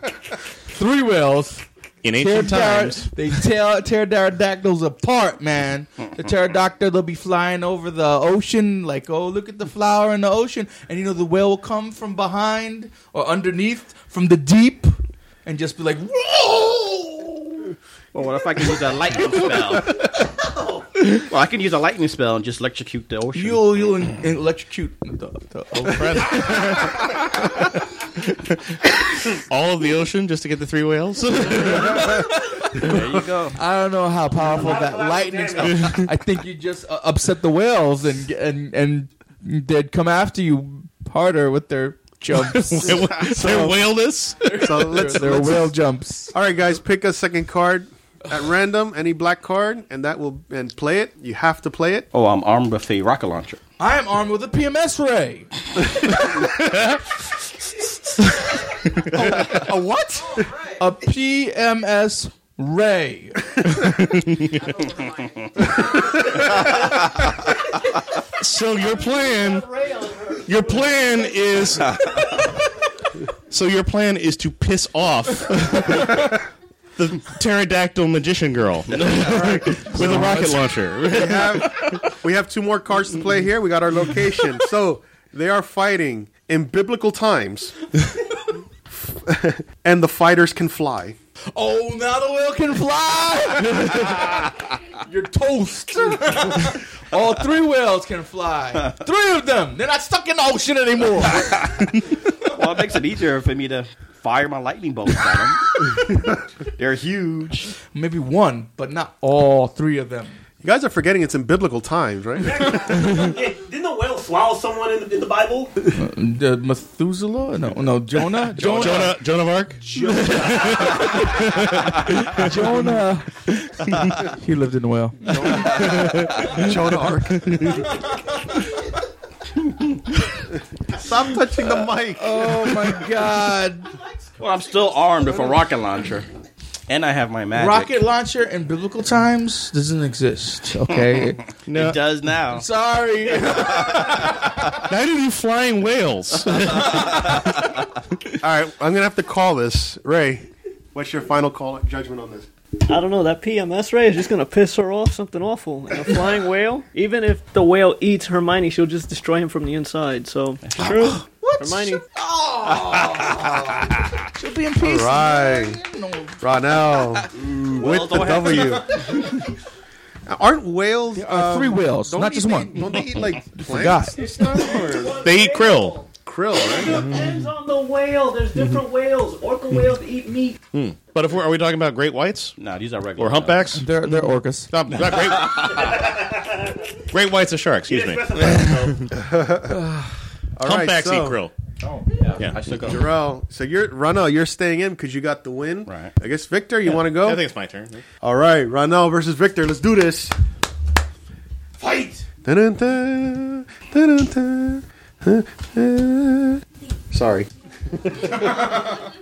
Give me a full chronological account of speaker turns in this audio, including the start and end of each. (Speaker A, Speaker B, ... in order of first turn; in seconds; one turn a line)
Speaker A: 0.7-17.7
Speaker B: 2.0-3.1
Speaker C: 18.1-20.0
Speaker C: 21.0-23.9
Speaker A: 23.3-26.6
Speaker B: 25.7-32.2
Speaker A: 31.6-32.8
Speaker C: 32.8-33.6
Speaker A: 33.5-43.7
Speaker D: 34.3-36.0
Speaker B: 35.6-36.1
Speaker B: 42.4-44.5
Speaker E: 43.4-43.7
Speaker A: 44.4-46.3
Speaker E: 44.5-45.8
Speaker E: 46.3-52.1
Speaker C: 52.1-53.6
Speaker A: 53.8-56.1
Speaker B: 56.6-57.0
Speaker E: 59.1-60.5
Speaker A: 60.8-64.0
Speaker B: 63.8-64.6
Speaker B: 68.4-69.7
Speaker F: 68.7-72.0
Speaker B: 70.5-72.2
Speaker B: 73.5-76.4
Speaker B: 77.0-82.0
Speaker A: 79.5-80.6
Speaker E: 81.1-87.8
Speaker E: 88.9-91.2
Speaker A: 91.5-101.6
Speaker C: 102.4-105.9
Speaker C: 106.8-107.7
Speaker A: 107.9-110.4
Speaker E: 110.6-113.0
Speaker D: 112.4-115.7
Speaker A: 115.9-119.2
Speaker B: 118.5-122.8
Speaker D: 118.8-119.1
Speaker A: 119.8-121.4
Speaker D: 119.9-120.9
Speaker A: 122.2-123.4
Speaker A: 124.2-125.9
Speaker E: 125.7-127.7
Speaker B: 125.9-126.5
Speaker A: 128.1-128.5
Speaker E: 130.9-132.9
Speaker A: 131.8-133.9
Speaker C: 134.4-136.3
Speaker C: 136.9-138.0
Speaker A: 137.5-141.4
Speaker B: 141.7-142.0
Speaker C: 141.7-142.7
Speaker A: 142.5-144.2
Speaker C: 143.4-144.1
Speaker B: 144.8-147.7
Speaker C: 146.9-147.2
Speaker E: 148.4-152.5
Speaker F: 152.8-162.0
Speaker C: 160.6-161.2
Speaker A: 161.4-166.4
Speaker E: 164.8-165.8
Speaker E: 166.4-169.1
Speaker C: 167.4-168.9
Speaker E: 170.2-175.2
Speaker A: 171.1-173.0
Speaker A: 173.5-174.2
Speaker F: 174.2-180.6
Speaker B: 175.2-176.0
Speaker E: 176.2-177.1
Speaker B: 176.9-177.2
Speaker B: 180.7-182.5
Speaker C: 182.6-183.6
Speaker B: 183.2-186.1
Speaker A: 183.7-184.7
Speaker D: 185.7-186.8
Speaker B: 187.1-189.1
Speaker D: 187.8-189.1
Speaker E: 189.1-189.8
Speaker A: 189.7-190.1
Speaker E: 190.6-191.4
Speaker B: 190.6-191.5
Speaker C: 192.2-193.0
Speaker B: 192.4-192.9
Speaker E: 192.8-197.4
Speaker C: 195.8-196.1
Speaker B: 197.0-198.0
Speaker E: 198.2-200.3
Speaker A: 201.8-202.2
Speaker E: 202.4-208.6